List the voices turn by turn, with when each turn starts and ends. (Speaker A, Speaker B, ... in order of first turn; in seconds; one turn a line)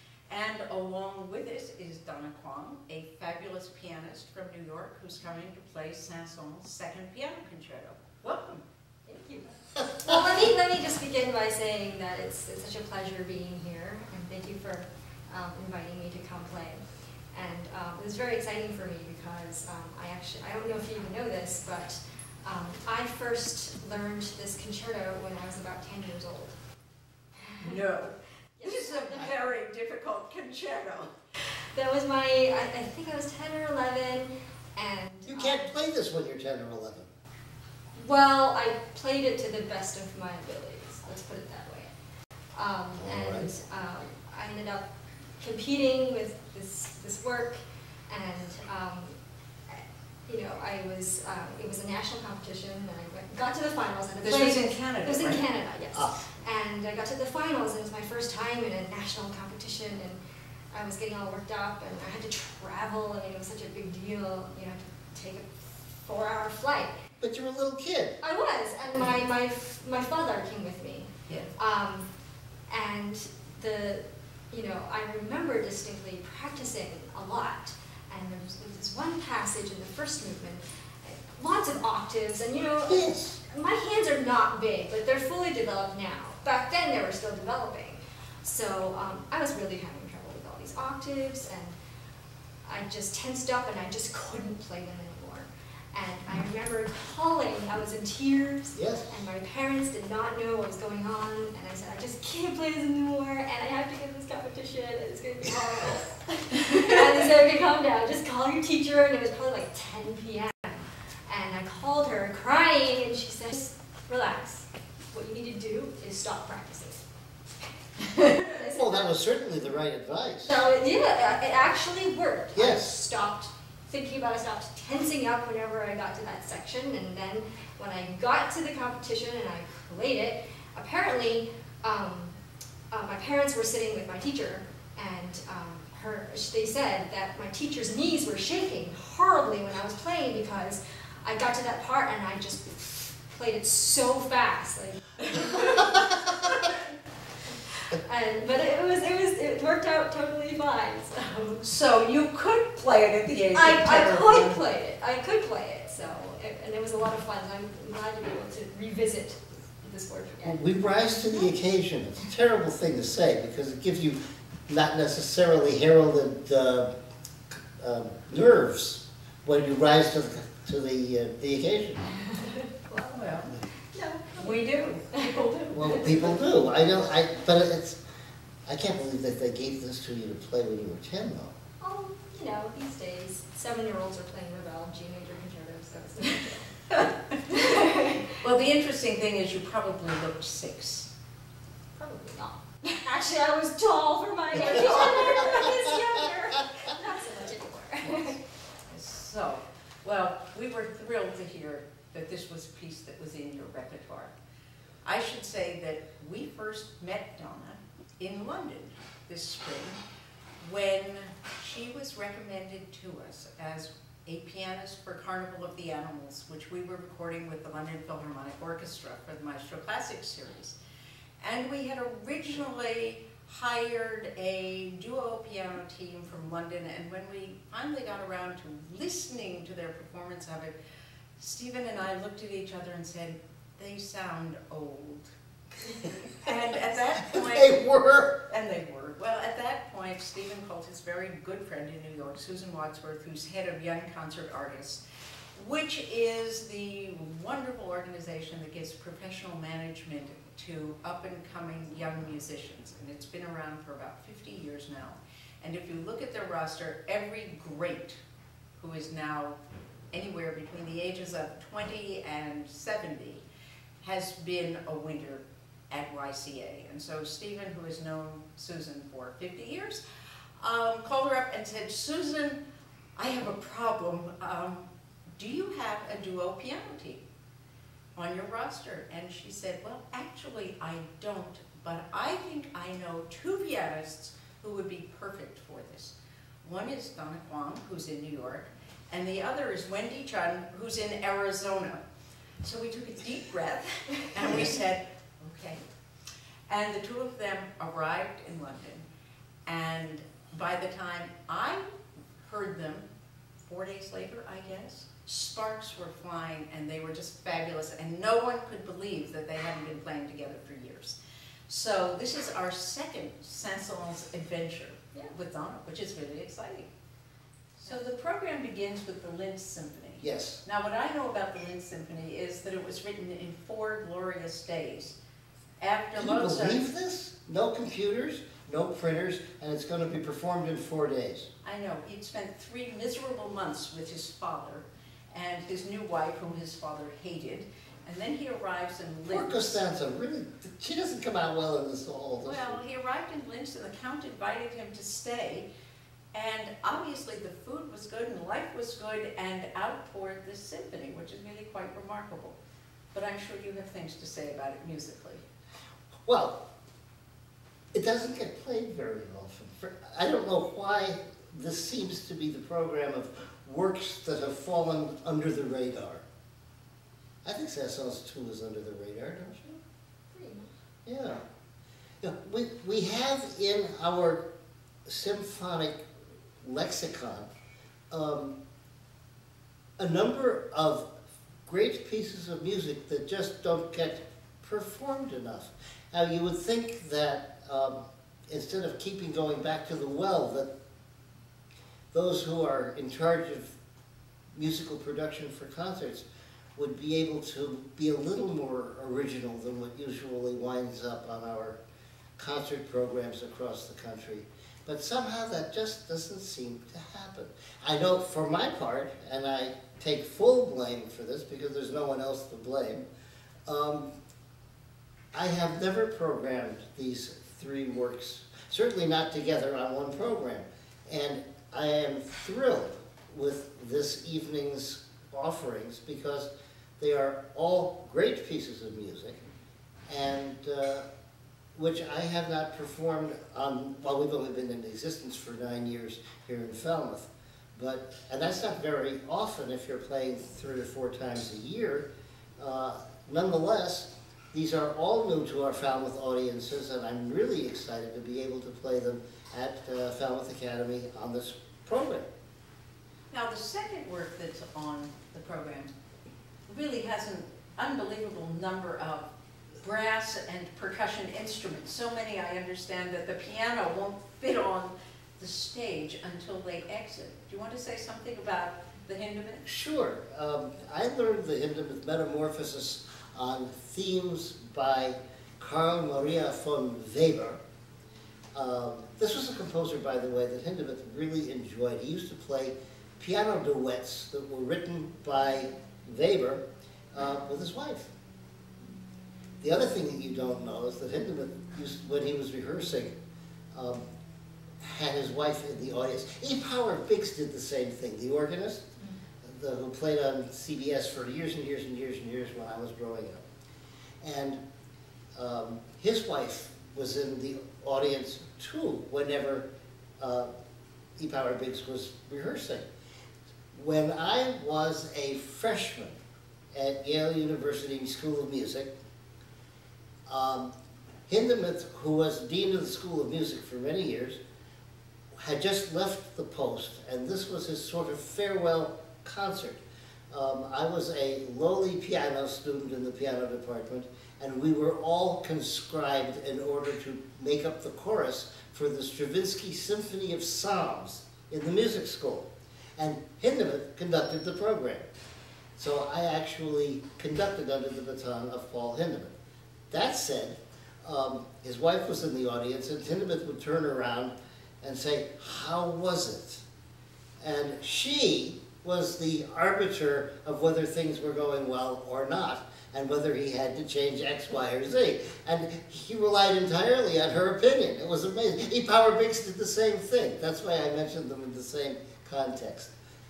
Speaker A: 0.3-8.6
Speaker B: 9.1-26.6
Speaker B: 27.4-27.8
Speaker A: 27.6-31.1
Speaker B: 28.6-29.3
Speaker B: 31.7-35.7
Speaker C: 35.3-37.1
Speaker B: 38.0-41.9
Speaker B: 42.5-44.9
Speaker C: 43.0-43.5
Speaker B: 45.4-60.2
Speaker A: 54.2-55.4
Speaker B: 60.7-67.0
Speaker C: 67.2-68.2
Speaker B: 68.2-72.1
Speaker B: 72.7-91.7
Speaker C: 82.9-83.4
Speaker B: 92.6-117.0
Speaker C: 98.7-99.1
Speaker B: 118.1-119.1
Speaker C: 118.5-120.5
Speaker B: 120.5-132.4
Speaker C: 122.5-123.0
Speaker B: 132.9-146.7
Speaker A: 145.2-146.0
Speaker B: 147.7-151.6
Speaker A: 151.6-154.6
Speaker B: 153.5-161.5
Speaker C: 160.4-166.9
Speaker C: 167.5-172.1
Speaker B: 172.2-173.3
Speaker A: 173.1-173.6
Speaker B: 173.9-175.9
Speaker A: 174.4-176.4
Speaker C: 175.7-178.0
Speaker C: 178.7-181.5
Speaker B: 181.8-186.8
Speaker B: 187.5-188.4
Speaker A: 188.4-191.1
Speaker B: 192.0-198.3
Speaker C: 195.0-195.6
Speaker A: 198.0-198.4
Speaker A: 198.9-204.3
Speaker A: 205.0-210.0
Speaker A: 210.6-220.8
Speaker A: 221.4-230.7
Speaker A: 231.4-235.3
Speaker A: 236.3-237.8
Speaker C: 237.2-238.4
Speaker A: 238.5-245.0
Speaker A: 245.5-258.2
Speaker A: 258.8-259.6
Speaker A: 260.1-263.4
Speaker A: 264.0-270.0
Speaker A: 270.6-272.6
Speaker A: 273.1-277.2
Speaker A: 278.1-292.0
Speaker A: 292.6-295.8
Speaker A: 296.7-299.0
Speaker A: 299.6-301.8
Speaker A: 302.4-303.0
Speaker A: 303.6-311.2
Speaker A: 311.7-316.9
Speaker A: 317.8-325.1
Speaker C: 320.2-320.6
Speaker A: 325.8-326.8
Speaker C: 326.1-331.5
Speaker A: 331.6-339.8
Speaker C: 339.3-342.8
Speaker A: 342.4-345.7
Speaker A: 346.3-352.6
Speaker A: 353.1-355.4
Speaker C: 356.2-356.6
Speaker C: 357.9-366.2
Speaker C: 367.4-369.8
Speaker B: 370.3-370.7
Speaker C: 371.0-371.4
Speaker C: 372.2-374.4
Speaker C: 375.1-376.0
Speaker C: 376.6-377.5
Speaker C: 378.1-378.6
Speaker C: 380.0-381.1
Speaker C: 381.6-390.7
Speaker C: 392.1-393.7
Speaker C: 394.5-401.8
Speaker C: 402.4-413.0
Speaker C: 413.6-414.1
Speaker C: 415.3-429.4
Speaker C: 430.1-431.1
Speaker C: 431.7-442.1
Speaker C: 442.6-452.3
Speaker A: 453.3-455.9
Speaker A: 456.7-459.3
Speaker A: 459.8-469.6
Speaker C: 469.6-477.6
Speaker C: 478.5-488.1
Speaker C: 489.6-493.1
Speaker C: 493.7-494.0
Speaker C: 494.8-498.9
Speaker C: 499.4-503.4
Speaker C: 504.2-504.6
Speaker C: 505.3-509.7
Speaker C: 510.2-510.5
Speaker C: 511.2-512.9
Speaker C: 513.7-516.2
Speaker C: 516.7-518.9
Speaker C: 520.3-520.7
Speaker C: 521.3-524.4
Speaker C: 525.4-545.1
Speaker C: 545.8-549.3
Speaker C: 549.9-556.6
Speaker C: 557.4-572.9